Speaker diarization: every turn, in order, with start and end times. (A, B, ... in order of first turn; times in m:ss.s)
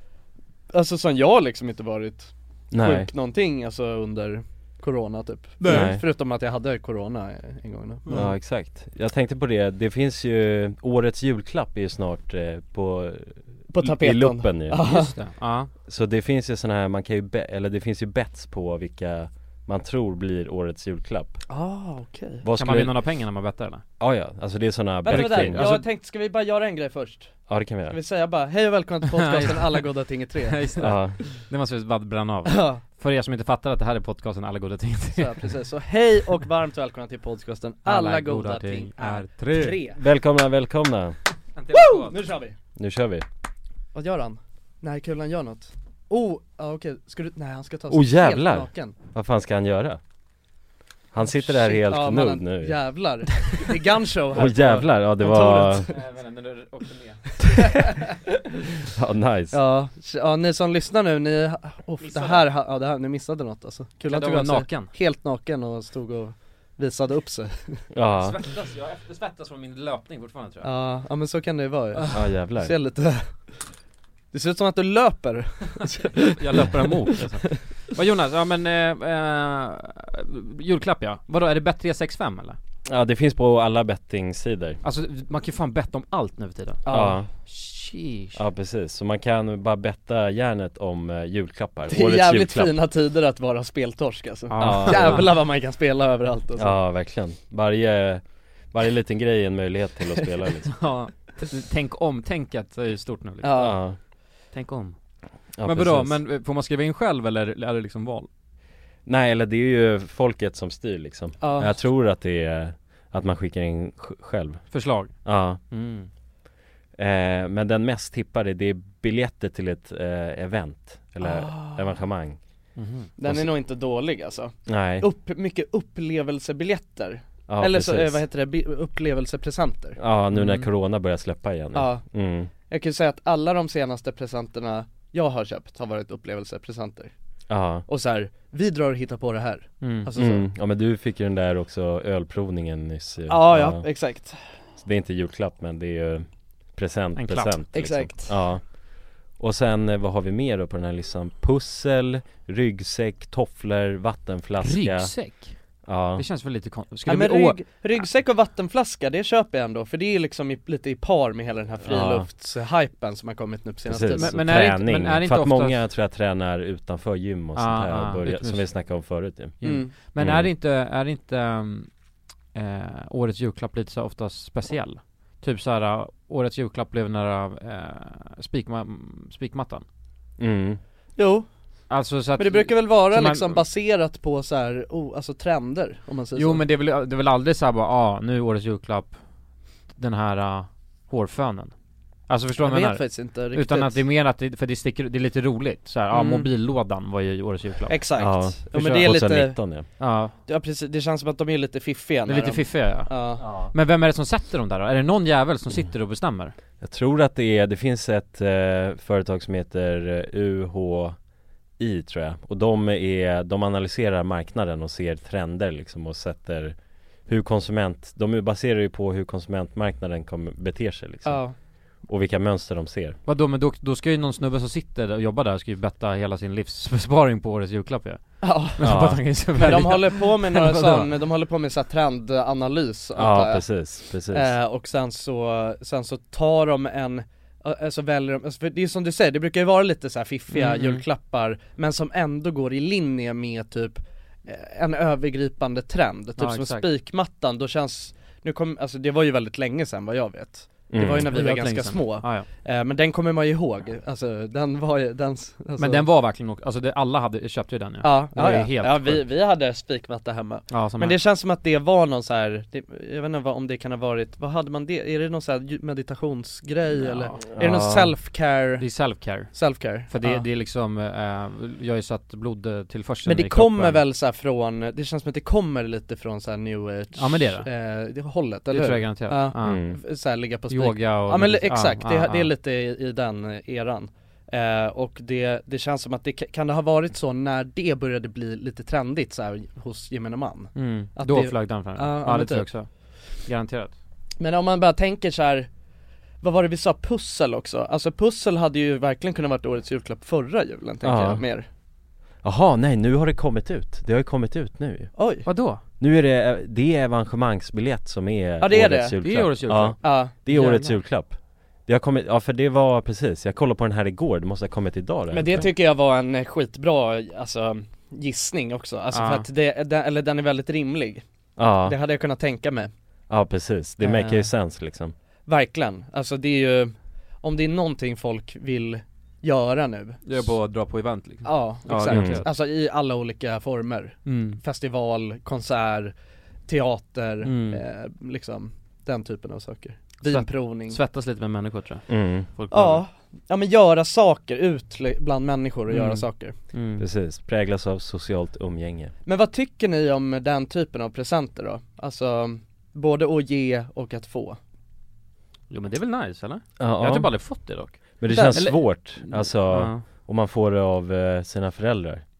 0:00.7-0:08.2 A
0:02.7-0:03.1 B
0:05.6-0:05.9 C
0:05.7-0:06.0 B
0:08.1-0:14.8 B
0:13.7-0:15.1 A
0:14.8-0:15.7 C
0:15.9-0:21.4 B
0:21.5-0:22.4 A
0:22.4-0:23.0 B
0:22.5-0:23.8 C
0:24.0-0:25.6 B
0:25.0-0:27.3 A
0:25.1-0:25.8 C
0:27.5-0:28.0 B
0:27.9-0:30.6 A
0:29.1-0:29.9 C
0:30.5-0:35.5 C
0:30.8-0:31.2 B
0:32.4-0:32.8 A
0:35.1-0:40.0 A
0:37.8-0:39.8 C
0:40.0-0:41.2 B
0:41.6-0:42.3 C
0:41.7-0:42.5 A
0:42.8-0:43.2 B
0:43.9-0:48.9 A
0:47.9-0:50.0 B
0:51.1-0:52.8 B
0:51.2-0:55.9 A
0:54.3-0:55.9 B
0:55.9-0:57.8 C
0:57.6-0:58.0 A
0:58.9-0:59.6 B
0:59.5-1:07.8 A
1:02.0-1:02.4 C
1:04.0-1:04.9 C
1:07.9-1:08.4 B
1:08.2-1:10.7 C
1:10.6-1:13.3 A
1:12.0-1:12.2 C
1:12.1-1:12.7 B
1:14.3-1:16.4 A
1:16.4-1:22.6 C
1:22.9-1:24.8 B
1:24.8-1:26.9 C
1:26.8-1:27.2 A
1:26.9-1:27.3 B
1:27.5-1:28.4 C
1:28.3-1:32.8 B
1:31.9-1:36.8 A
1:34.5-1:35.3 C
1:34.6-1:35.3 B
1:36.6-1:40.8 B
1:40.7-1:43.8 C
1:43.4-1:43.8 A
1:43.6-1:44.0 B
1:44.5-1:45.0 C
1:45.6-1:46.2 B
1:45.6-1:48.3 C
1:49.0-1:55.6 B
1:51.4-1:51.8 A
1:54.7-1:55.1 C
1:55.7-1:56.1 C
1:57.0-2:02.4 B
2:01.2-2:02.0 A
2:02.8-2:03.1 C
2:03.2-2:10.0 A
2:04.6-2:05.0 B
2:07.5-2:08.2 B
2:10.0-2:12.5 B
2:10.3-2:10.7 C
2:11.7-2:12.0 A
2:12.7-2:17.1 A
2:17.5-2:17.8 B
2:17.9-2:20.5 A
2:19.8-2:20.1 C
2:20.1-2:23.8 B
2:23.3-2:24.4 A
2:24.8-2:28.8 B
2:27.2-2:27.6 C
2:27.7-2:28.4 A
2:29.4-2:35.1 B
2:34.6-2:35.6 C
2:35.8-2:36.2 B
2:36.1-2:38.0 C
2:37.0-2:44.6 A
2:41.8-2:42.3 B
2:43.8-2:49.6 B
2:44.1-2:45.8 C
2:47.5-2:48.7 C
2:49.6-2:51.9 C
2:49.6-2:49.9 A
2:50.2-2:50.5 B
2:52.5-2:59.8 C
3:00.4-3:00.8 B
3:01.2-3:01.5 A
3:01.9-3:03.6 C
3:02.4-3:06.6 A
3:06.4-3:09.2 C
3:09.9-3:11.7 C
3:12.3-3:18.0 C
3:12.6-3:14.0 A
3:16.1-3:16.4 A
3:17.9-3:19.6 A
3:18.2-3:19.9 B
3:20.0-3:20.3 C
3:20.4-3:23.4 A
3:22.3-3:26.5 C
3:23.4-3:23.7 B
3:26.8-3:31.2 B
3:31.8-3:36.8 B
3:37.3-3:41.4 B
3:41.2-3:41.5 A
3:42.0-3:43.2 B
3:43.2-3:51.1 C
3:48.4-3:48.9 A
3:48.8-3:49.9 B
3:49.6-3:53.7 A
3:53.2-3:54.5 B
3:54.3-4:16.0 A
4:00.5-4:01.0 C
4:06.4-4:06.9 C
4:10.9-4:11.3 B
4:11.3-4:12.5 C
4:15.8-4:19.2 C
4:18.0-4:30.4 A
4:20.7-4:21.2 C
4:26.9-4:27.4 C
4:27.5-4:28.1 B
4:28.8-4:34.0 C
4:33.2-4:52.7 A
4:37.2-4:37.7 C
4:38.7-4:39.9 C
4:39.6-4:40.0 B
4:40.7-4:42.5 C
4:50.7-4:53.9 C
4:54.4-4:55.7 A
4:56.4-5:01.7 A
5:01.0-5:01.4 B
5:02.4-5:05.1 B
5:05.2-5:05.5 A
5:05.4-5:05.8 C
5:06.0-5:11.3 B
5:08.6-5:09.2 A
5:09.2-5:10.9 C
5:10.0-5:10.9 A
5:11.8-5:15.7 B
5:15.3-5:21.2 A
5:19.1-5:19.4 C
5:21.6-5:22.0 B
5:21.8-5:22.9 A
5:23.3-5:25.1 B
5:24.0-5:24.3 A
5:25.5-5:30.4 A
5:30.2-5:32.5 C
5:31.4-5:36.1 A
5:32.1-5:32.4 B
5:34.2-5:34.6 C
5:36.7-5:41.0 A
5:37.4-5:37.8 C
5:40.2-5:43.0 C
5:42.1-5:42.5 B
5:42.7-5:46.5 A
5:45.9-5:47.0 C
5:47.0-5:49.1 B
5:49.2-5:54.6 A
5:55.7-6:00.0 C
5:56.8-5:57.6 B
5:58.2-6:02.2 B
5:58.3-5:58.6 A